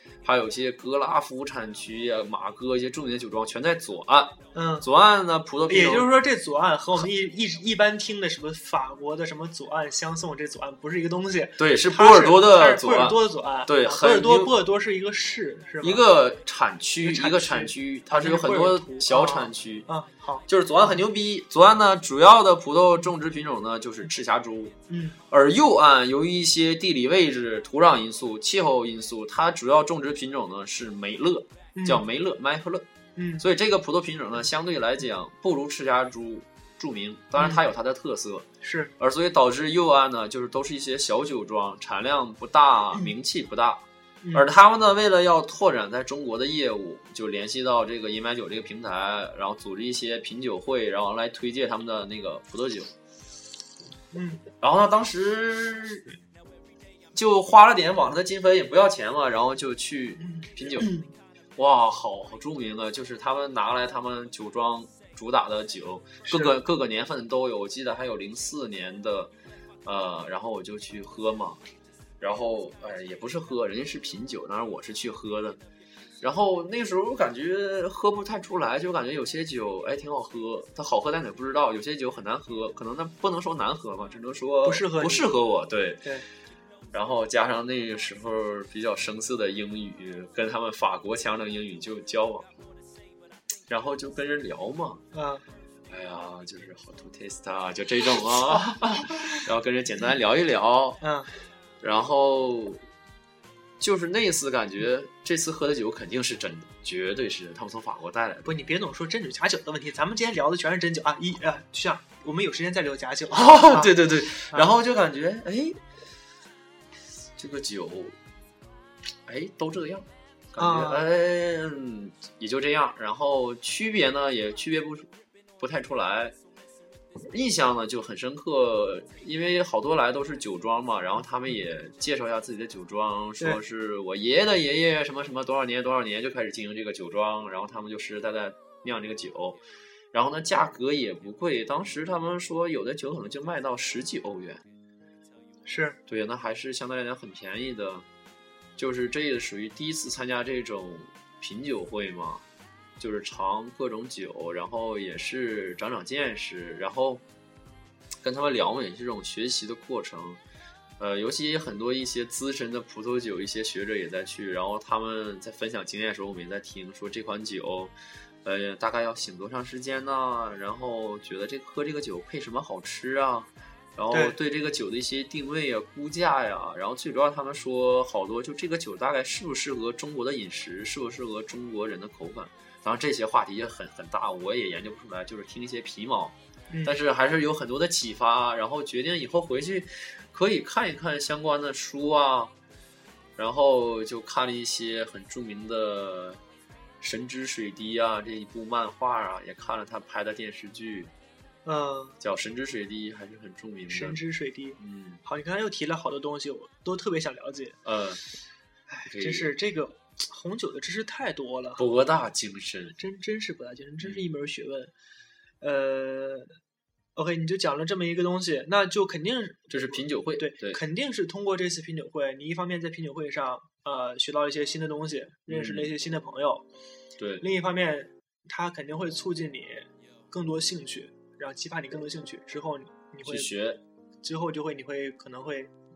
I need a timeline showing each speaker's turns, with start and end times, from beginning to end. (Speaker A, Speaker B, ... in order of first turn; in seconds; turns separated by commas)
Speaker A: 0.2-6.1, Speaker B: 4.5-4.9, Speaker B: 5.7-16.0, Speaker A: 11.6-14.5, Speaker A: 15.8-19.9, Speaker B: 17.0-20.4, Speaker A: 20.5-24.8, Speaker B: 24.9-25.2, Speaker A: 25.3-32.9, Speaker B: 31.7-32.0, Speaker B: 33.1-33.4, Speaker A: 33.4-38.5, Speaker B: 38.6-38.9, Speaker A: 39.0-52.9, Speaker B: 54.1-54.4, Speaker A: 54.6-56.1, Speaker A: 57.1-60.9, Speaker B: 60.2-61.1, Speaker A: 61.6-69.3, Speaker B: 66.2-66.5, Speaker A: 69.8-71.6, Speaker A: 72.2-75.6, Speaker A: 76.2-86.0, Speaker B: 84.6-85.3, Speaker A: 86.9-92.5, Speaker A: 93.7-95.0, Speaker B: 95.1-95.4, Speaker A: 95.9-101.0, Speaker B: 101.0-101.3, Speaker A: 101.8-102.8, Speaker A: 103.8-108.5, Speaker B: 108.4-113.9, Speaker A: 113.3-115.8, Speaker A: 117.4-118.2, Speaker A: 119.3-126.3, Speaker B: 120.6-121.1, Speaker A: 127.3-139.6, Speaker A: 140.1-144.6, Speaker B: 145.7-146.0, Speaker A: 146.1-148.1, Speaker A: 148.8-152.4, Speaker A: 153.0-157.2, Speaker A: 158.2-160.4, Speaker A: 161.0-192.5, Speaker B: 186.7-186.9, Speaker A: 193.4-196.4, Speaker A: 197.0-201.1, Speaker B: 201.6-202.2, Speaker A: 202.2-204.2, Speaker B: 203.9-207.8, Speaker A: 204.8-205.2, Speaker A: 207.8-208.2, Speaker B: 208.9-211.8, Speaker A: 209.1-209.5, Speaker A: 211.8-213.0, Speaker B: 213.0-214.9, Speaker B: 215.6-216.6, Speaker B: 217.1-226.6, Speaker A: 219.7-220.8, Speaker A: 225.5-225.9, Speaker A: 227.2-227.4, Speaker B: 227.4-233.5, Speaker A: 233.2-233.8, Speaker B: 234.2-235.7